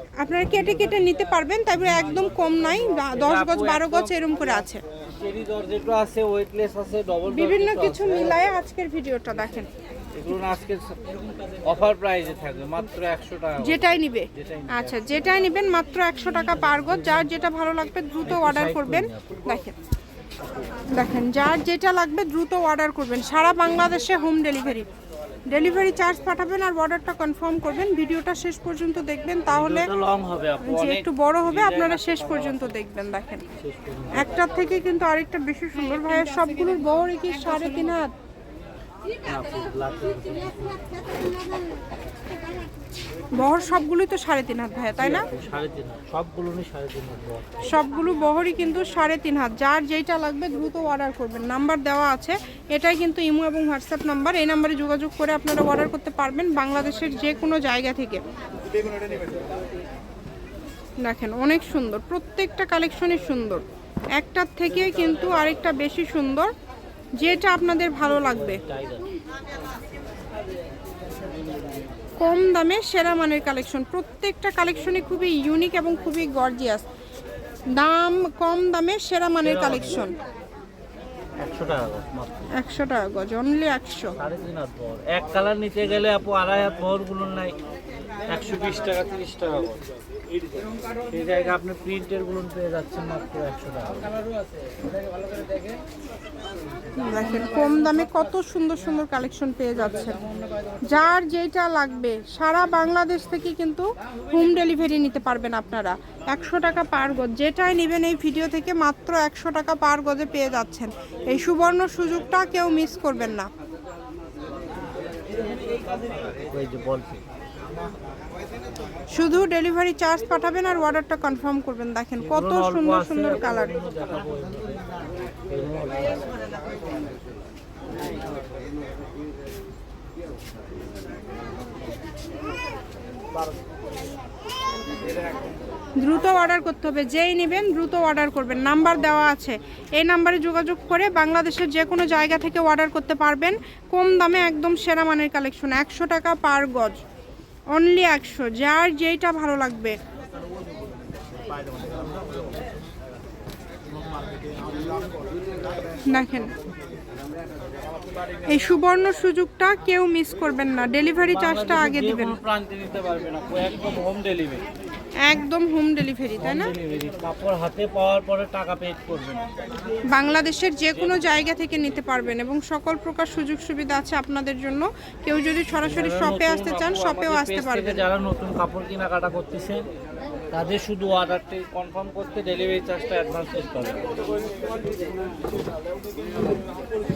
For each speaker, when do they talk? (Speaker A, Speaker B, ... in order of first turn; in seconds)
Speaker A: 0.2-4.8, 7.3-9.7, 13.6-19.7, 20.9-24.9, 25.5-29.9, 30.6-33.5, 34.1-38.1, 43.3-45.3, 47.6-58.2, 61.0-63.6, 64.2-66.5, 67.2-68.6, 72.2-76.8, 77.7-80.1, 82.6-84.1, 97.0-100.2, 100.8-113.5, 119.1-123.7, 136.0-147.0, 147.7-149.9, 156.1-156.5, 158.5-162.4, 165.2-166.7, 170.1-178.0
Speaker B: 1.9-2.3, 3.1-4.2, 5.1-8.4, 10.1-11.0, 11.6-15.1, 16.6-17.2, 18.2-19.5, 29.5-32.7, 33.6-34.3, 39.2-41.0, 45.0-47.6, 68.1-69.2, 79.4-80.0, 81.4-82.5, 84.2-87.5, 88.3-89.8, 91.1-94.1, 116.3-117.2, 122.2-126.3, 161.3-164.6, 166.4-169.4, 170.9-171.4, 175.8-179.8, 180.5-184.1